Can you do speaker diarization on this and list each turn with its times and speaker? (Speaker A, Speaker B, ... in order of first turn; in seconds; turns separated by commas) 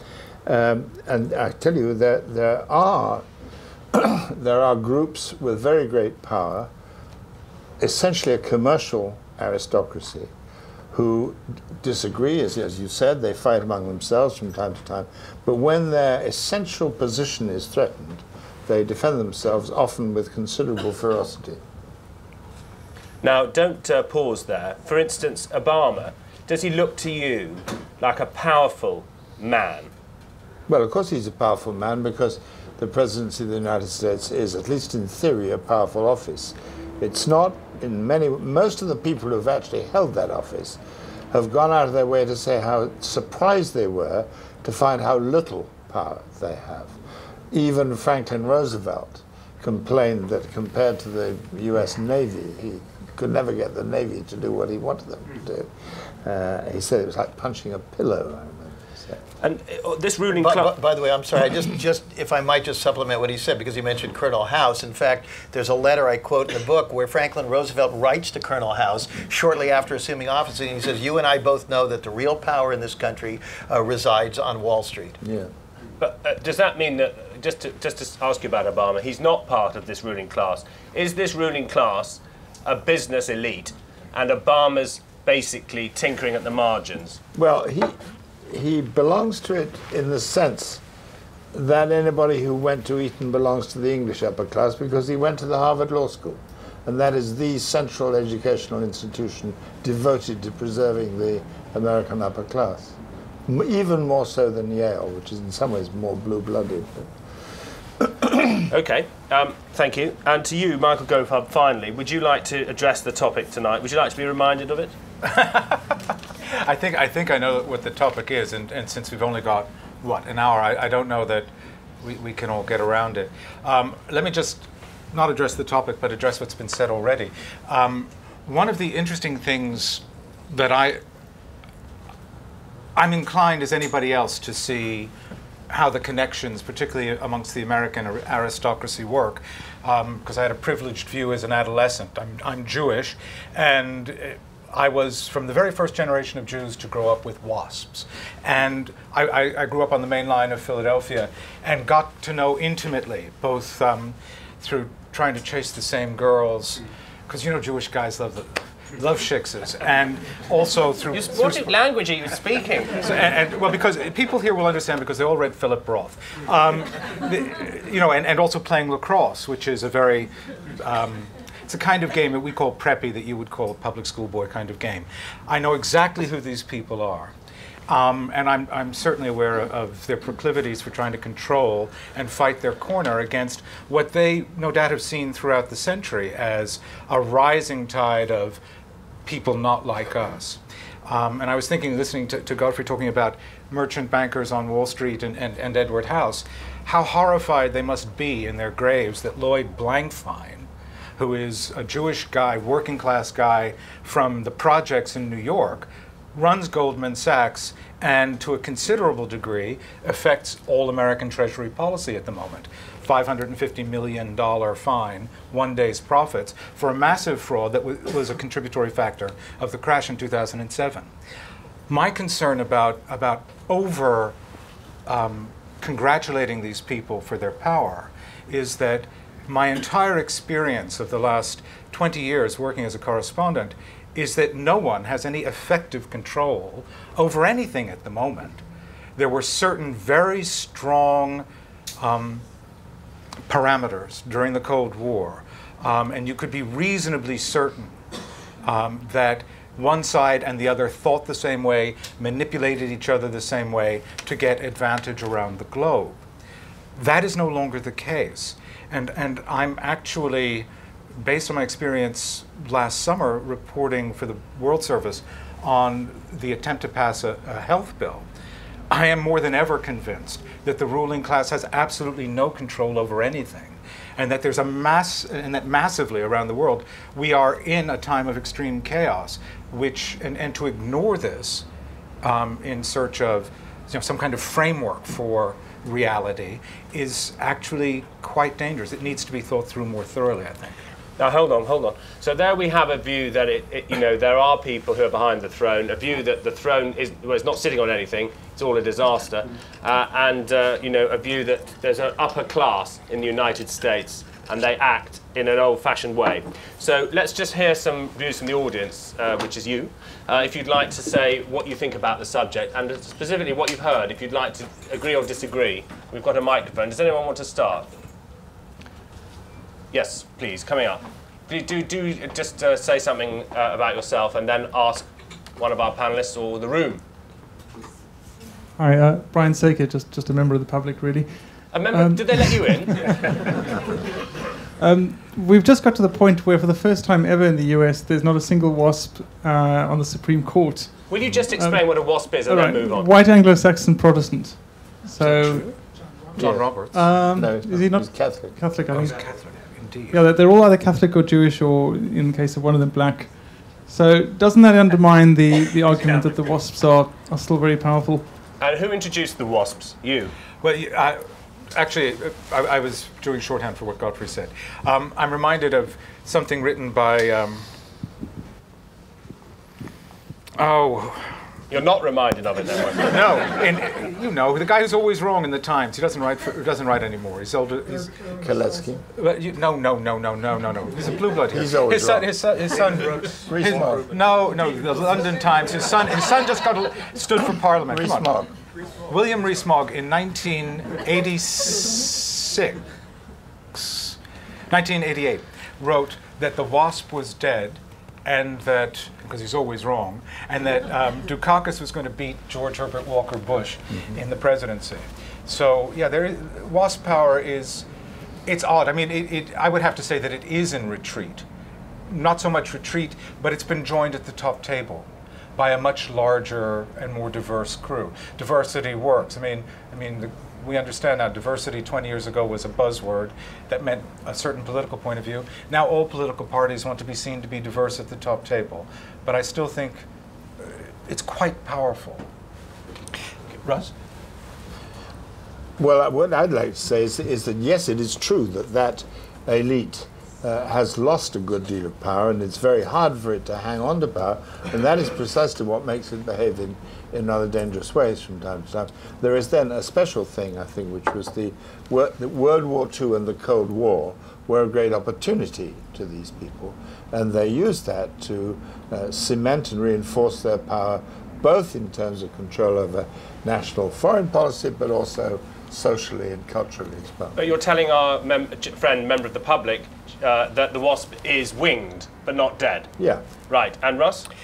Speaker A: 0.4-3.2, Speaker A: 3.9-6.7, Speaker A: 7.8-10.3, Speaker A: 10.9-21.6, Speaker B: 23.2-29.9, Speaker A: 30.7-40.8, Speaker A: 41.3-47.0, Speaker A: 47.5-59.2, Speaker B: 59.4-60.7, Speaker C: 60.4-75.2, Speaker A: 75.2-75.5, Speaker B: 76.0-87.2, Speaker A: 87.3-87.9, Speaker A: 88.5-90.8, Speaker A: 91.5-107.1, Speaker B: 108.7-114.9, Speaker D: 115.2-115.9, Speaker D: 116.5-121.5, Speaker D: 122.0-131.0, Speaker D: 132.9-135.1, Speaker D: 135.7-161.8, Speaker B: 161.1-163.1, Speaker D: 163.0-177.3, Speaker D: 177.9-188.6, Speaker D: 189.2-221.1, Speaker D: 221.9-224.3, Speaker D: 225.1-238.6, Speaker D: 239.2-241.4, Speaker D: 242.0-242.4, Speaker D: 243.5-248.0, Speaker D: 248.6-256.2, Speaker D: 256.9-268.2, Speaker D: 268.9-281.6, Speaker D: 282.2-290.7, Speaker B: 291.2-317.9, Speaker B: 319.9-327.0, Speaker E: 328.8-333.6, Speaker B: 331.7-333.3, Speaker E: 334.8-345.8, Speaker B: 341.1-343.1, Speaker D: 345.2-345.7, Speaker D: 346.3-347.1, Speaker A: 346.4-348.6, Speaker E: 346.9-349.2, Speaker D: 348.9-350.2, Speaker E: 350.1-358.2, Speaker B: 358.6-360.3, Speaker D: 360.6-361.2, Speaker D: 361.7-367.6, Speaker D: 370.6-371.3, Speaker B: 371.7-373.2, Speaker D: 373.0-378.6, Speaker A: 378.3-379.0, Speaker D: 379.1-388.3, Speaker A: 381.5-382.3, Speaker A: 383.2-384.1, Speaker A: 387.9-388.5, Speaker D: 389.1-392.8, Speaker D: 393.7-394.2, Speaker D: 394.7-407.8, Speaker D: 408.4-411.4, Speaker D: 412.1-430.0, Speaker D: 430.6-432.3, Speaker D: 433.6-433.9, Speaker A: 435.8-467.5, Speaker B: 467.4-472.9, Speaker B: 473.5-474.3